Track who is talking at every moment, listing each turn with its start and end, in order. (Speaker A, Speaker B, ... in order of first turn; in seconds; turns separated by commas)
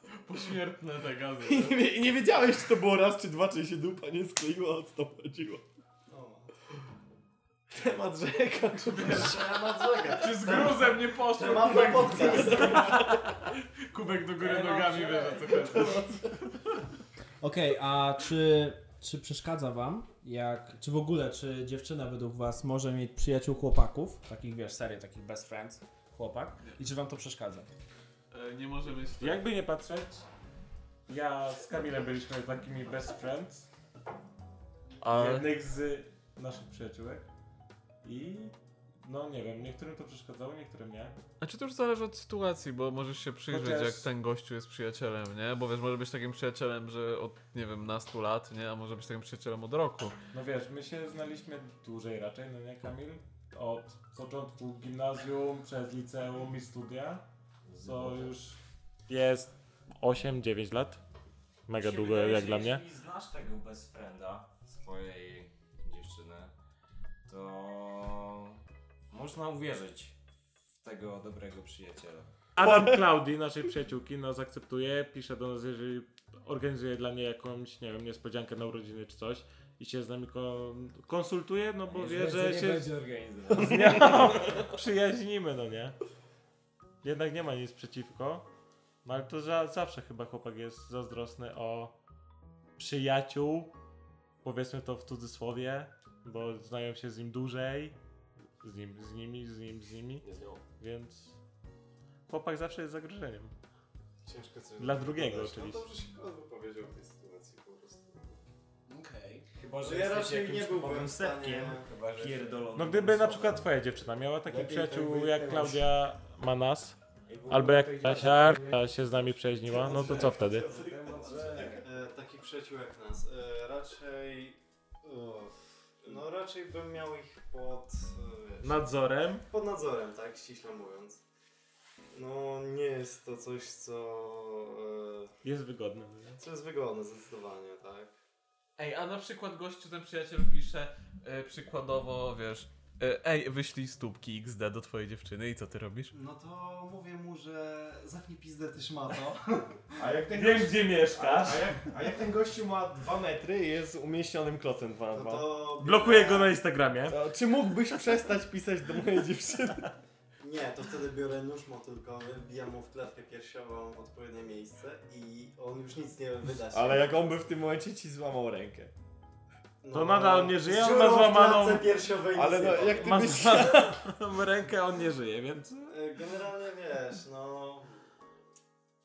Speaker A: 0.2-1.8, Speaker B: 1.4-5.6, Speaker C: 6.1-6.5, Speaker B: 7.7-10.2, Speaker C: 8.9-13.2, Speaker A: 10.1-13.0, Speaker B: 12.0-13.2, Speaker A: 13.9-16.0, Speaker D: 14.4-15.8, Speaker B: 15.6-16.6, Speaker E: 17.4-27.7, Speaker A: 28.3-29.5, Speaker F: 29.2-30.2, Speaker F: 31.1-33.7, Speaker A: 35.0-35.5, Speaker F: 35.0-37.2, Speaker F: 38.0-41.2, Speaker A: 41.4-50.1, Speaker F: 43.5-44.0, Speaker F: 50.3-57.2, Speaker D: 57.7-58.3, Speaker F: 57.8-61.0, Speaker F: 61.7-62.8, Speaker D: 61.8-66.5, Speaker D: 67.3-70.2, Speaker D: 70.8-72.3, Speaker F: 72.5-82.9, Speaker B: 72.6-73.0, Speaker D: 81.9-84.6, Speaker F: 83.5-85.9, Speaker F: 87.0-88.4, Speaker F: 89.0-91.9, Speaker F: 92.8-93.7, Speaker F: 94.4-98.0, Speaker F: 98.6-101.3, Speaker B: 100.2-100.6, Speaker F: 102.3-103.5, Speaker C: 104.2-108.4, Speaker F: 104.8-105.8, Speaker E: 108.9-109.5, Speaker D: 109.6-113.7, Speaker C: 109.8-112.7, Speaker F: 112.7-117.0, Speaker B: 114.5-115.9, Speaker D: 117.3-119.0, Speaker F: 117.5-120.7, Speaker C: 119.7-128.9, Speaker D: 119.7-121.8, Speaker B: 119.8-121.8, Speaker F: 128.6-129.4, Speaker C: 129.5-131.2, Speaker C: 132.1-135.3, Speaker F: 135.4-136.4, Speaker C: 136.4-138.1, Speaker A: 138.8-146.1, Speaker C: 146.1-150.1, Speaker B: 150.0-155.4, Speaker F: 150.3-151.8, Speaker C: 155.1-156.6, Speaker F: 155.8-157.2, Speaker B: 157.1-159.9, Speaker C: 160.4-167.2, Speaker B: 166.7-168.9, Speaker C: 169.8-173.5, Speaker F: 169.9-171.9, Speaker B: 172.3-174.0, Speaker F: 173.0-175.9, Speaker C: 175.9-178.0